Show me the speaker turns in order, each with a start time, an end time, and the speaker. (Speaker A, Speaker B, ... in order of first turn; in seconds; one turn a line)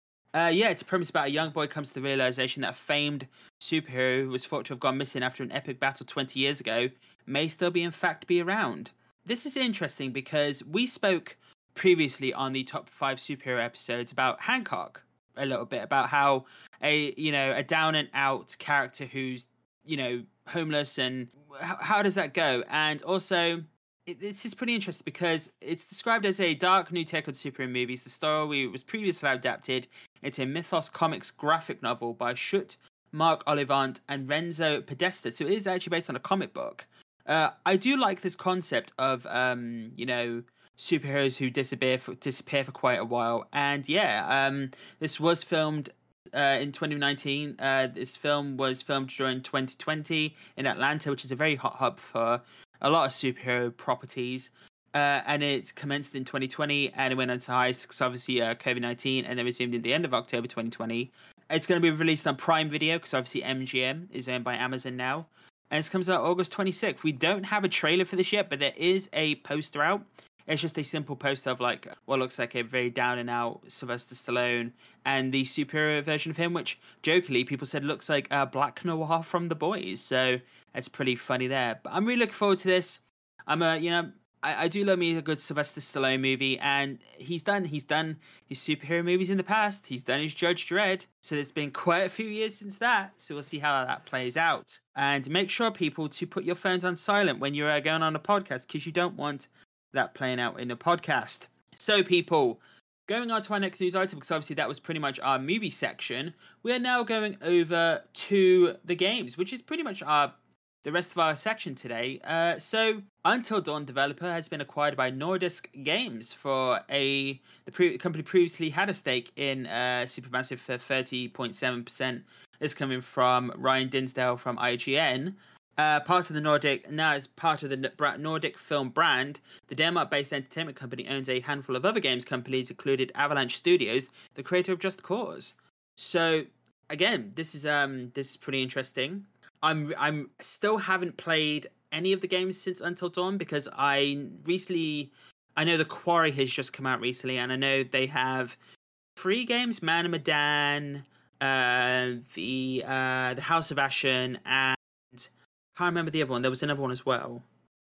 Speaker A: 0.3-148.6
Speaker A: 149.2-157.4